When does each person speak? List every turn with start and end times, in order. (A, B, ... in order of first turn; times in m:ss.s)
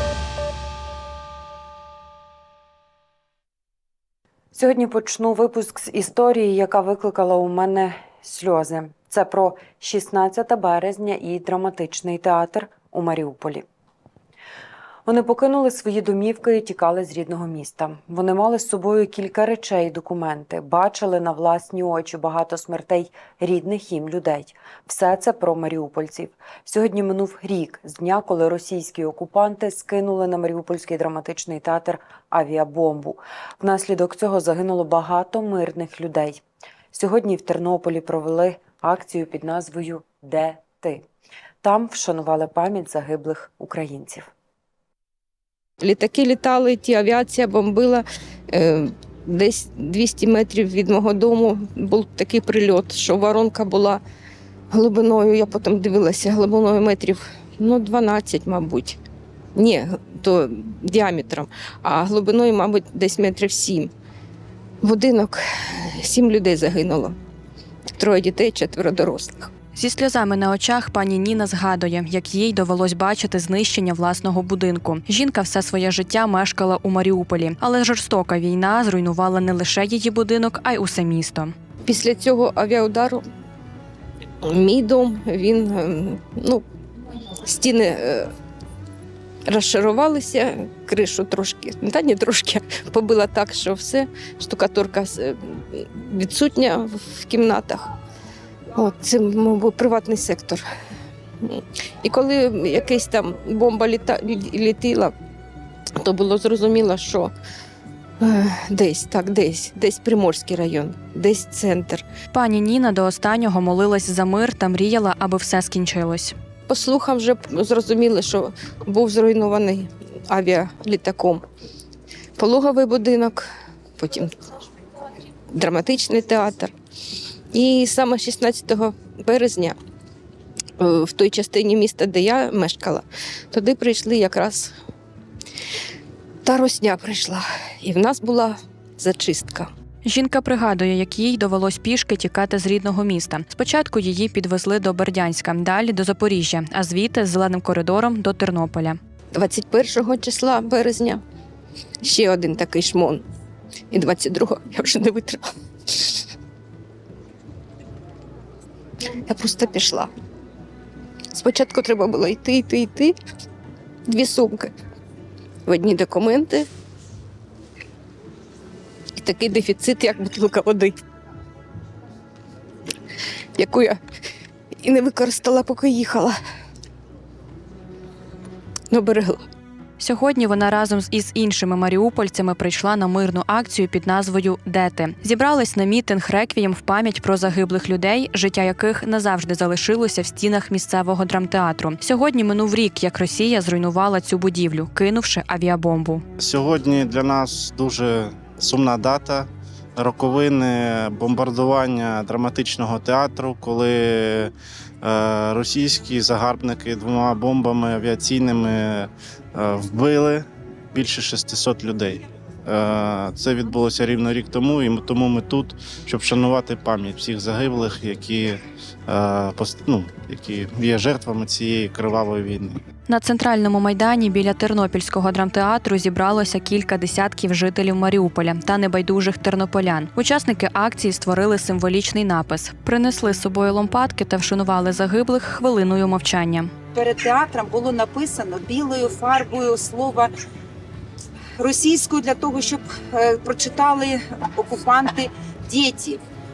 0:04.5-0:13.6 A
0:15.0-0:41.0 A
0:41.6-0:44.3 A
0:45.8-0:54.0 B
0:54.7-0:59.0 B
0:59.6-1:03.9 B
1:04.8-1:05.4 B
1:06.0-1:07.1 B
1:08.0-1:09.5 B
1:09.8-1:21.5 C
1:21.8-1:23.2 B
1:24.4-1:26.6 B
1:27.4-1:28.3 B
1:29.5-1:37.9 B
1:38.8-1:40.6 B
1:41.4-1:45.1 B
1:46.0-1:47.3 B
1:48.2-1:52.0 B
1:52.3-1:56.3 C
1:56.7-2:01.4 B
2:02.4-2:04.3 B
2:05.5-2:06.7 B
2:07.5-2:09.8 B
2:10.8-2:14.7 B
2:16.4-2:19.7 B
2:20.0-2:29.0 C
2:29.3-2:31.2 B
2:32.0-2:33.2 B
2:33.9-2:36.1 B
2:39.2-2:40.1 B
2:41.3-2:43.1 B
2:44.1-2:44.7 B
2:45.6-2:46.7 B
2:49.2-2:50.9 B
2:53.6-2:54.0 B
2:54.8-2:56.3 B
2:58.9-2:59.4 B
3:00.0-3:16.2 C
3:16.4-3:42.8 D
3:43.1-3:56.7 C
3:56.9-4:00.3 E
4:01.6-4:06.2 E